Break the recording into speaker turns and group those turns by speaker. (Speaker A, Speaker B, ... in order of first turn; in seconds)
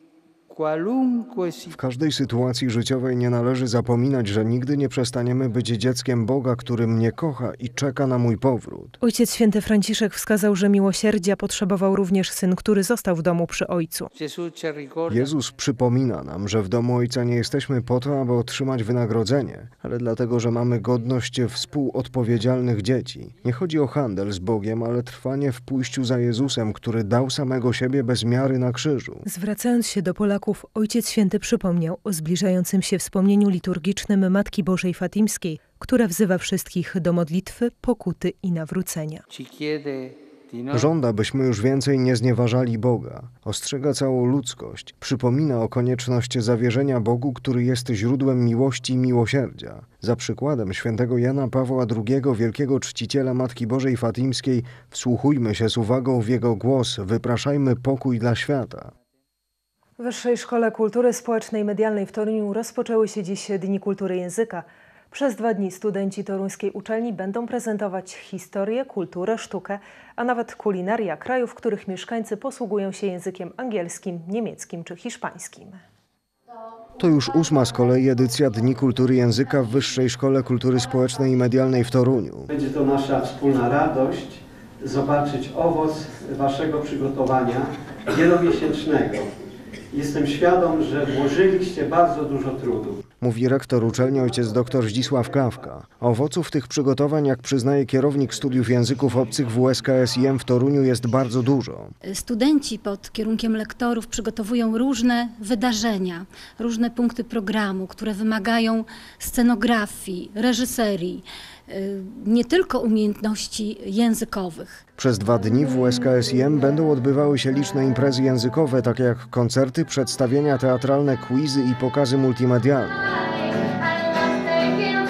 Speaker A: 0.5-1.8, 14.2-15.3, 39.3-40.9, 82.5-89.3, 89.9-93.0
Speaker B: 1.7-9.0, 15.1-29.2, 40.7-58.9, 77.0-82.5, 93.2-101.9, 115.0-123.0
Speaker C: 9.0-14.1, 29.3-39.2, 60.0-75.8
Speaker D: 102.1-114.8